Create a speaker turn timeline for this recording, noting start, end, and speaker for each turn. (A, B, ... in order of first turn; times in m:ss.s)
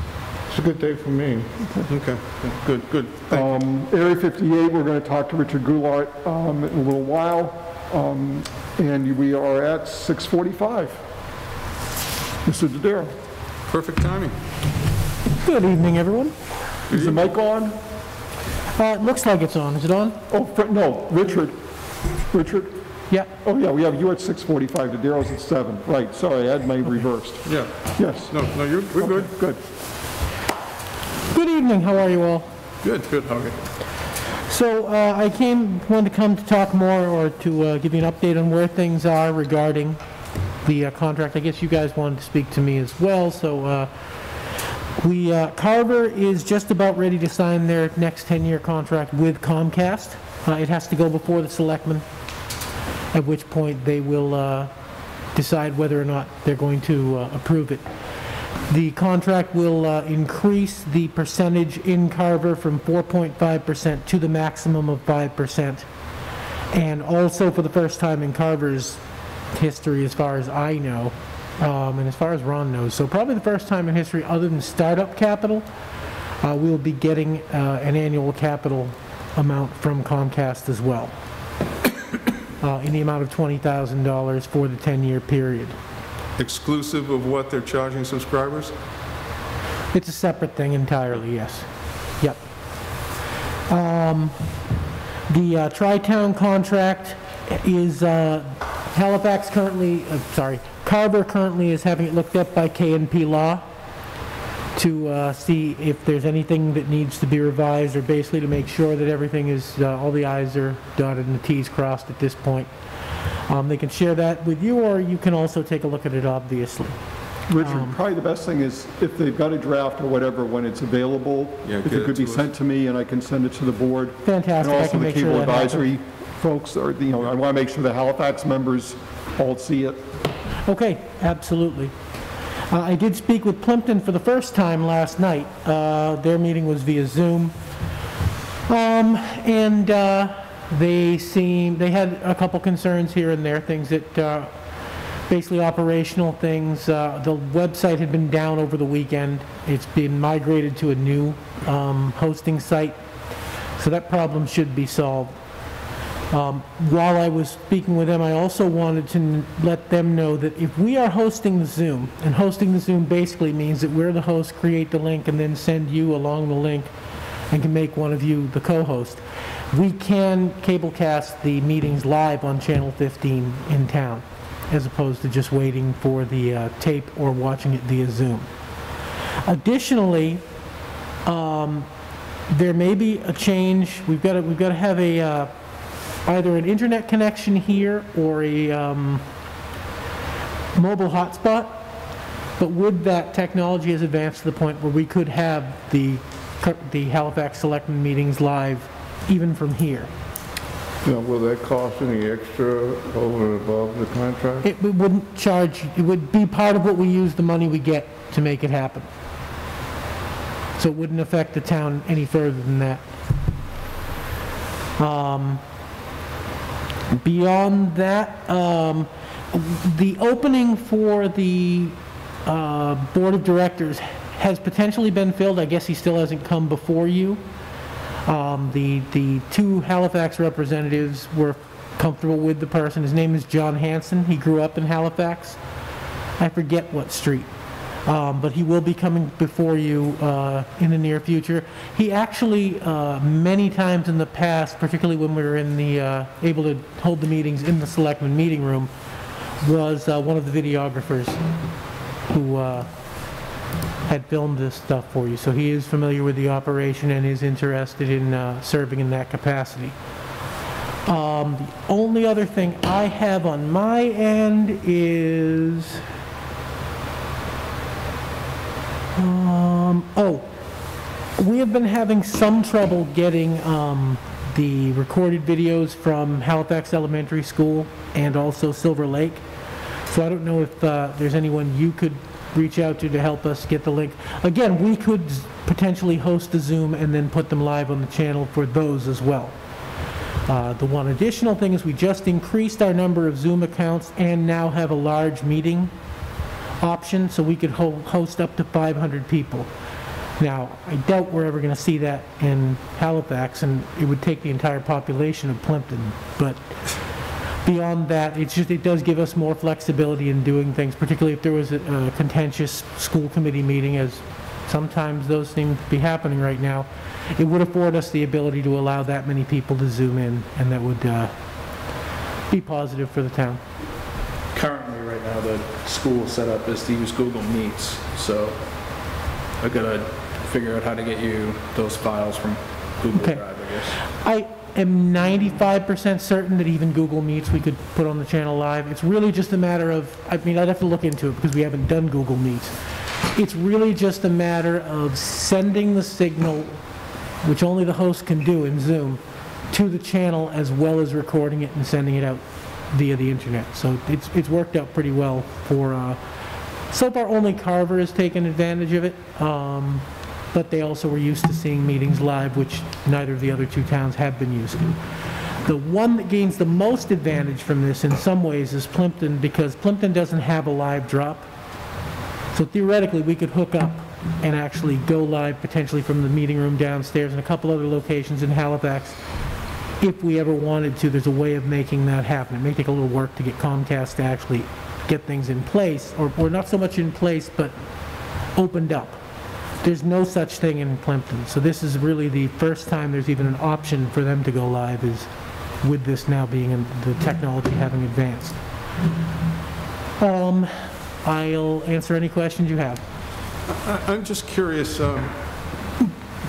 0:00.5-0:01.5 A
0:01.9-0:03.6 B
0:03.3-0:11.0 C
0:12.4-0:13.1 C
0:13.7-0:14.4 B
0:15.4-0:16.4 D
0:16.9-0:17.2 B
0:16.9-0:17.8 C
0:18.8-0:20.2 D
0:20.3-0:21.6 C
0:22.1-0:22.8 C
0:23.4-0:29.6 C
0:27.4-0:29.3 B
0:31.3-0:32.5 D
0:32.8-0:33.1 B
0:32.8-0:33.5 E
0:34.5-0:40.0 D
0:40.6-0:43.9 D
0:45.0-0:52.1 D
0:53.1-0:54.7 D
0:55.3-0:57.8 D
0:58.7-1:05.9 D
1:06.7-1:15.6 D
1:16.4-1:21.1 D
1:22.6-1:25.8 D
1:26.4-1:28.7 B
1:29.9-1:33.0 D
1:33.7-1:34.5 D
1:35.3-1:43.6 D
1:44.8-1:52.7 D
1:53.5-1:57.0 D
1:57.5-2:10.0 C
1:57.5-1:58.0 D
2:01.6-2:02.5 B
2:04.2-2:05.9 D
2:10.6-2:11.9 D
2:12.7-2:17.5 D
2:18.7-2:24.5 D
2:25.3-2:33.0 D
2:33.8-2:35.4 D
2:36.3-2:46.9 D
2:47.5-2:58.5 D
2:59.5-3:00.4 D
3:01.2-3:01.9 D
3:02.5-3:05.5 D
3:06.2-3:09.2 D
3:10.8-3:11.8 D
3:12.6-3:20.1 D
3:21.0-3:24.7 A
3:24.6-3:29.1 D
3:30.8-3:33.0 D
3:35.0-3:35.6 D
3:37.2-3:47.4 D
3:48.2-3:55.6 D
3:56.4-3:57.5 D
3:58.0-4:08.9 D
4:09.6-4:11.4 D
4:12.3-4:12.9 D
4:14.1-4:20.0 D
4:21.0-4:26.0 D
4:29.2-4:30.5 D
4:31.4-4:39.4 D
4:40.1-4:49.6 D
4:50.5-4:55.9 D
4:56.8-4:59.7 D
5:00.4-5:06.8 D
5:07.6-5:21.8 D
5:22.5-5:23.6 D
5:24.5-5:34.0 E
5:33.1-5:33.4 D
5:34.0-5:42.8 D
5:43.3-5:46.8 D
5:47.4-5:56.2 D
5:56.9-6:05.0 D
6:05.6-6:11.5 D
6:12.5-6:38.6 D
6:40.2-6:43.0 D
6:43.7-6:46.0 B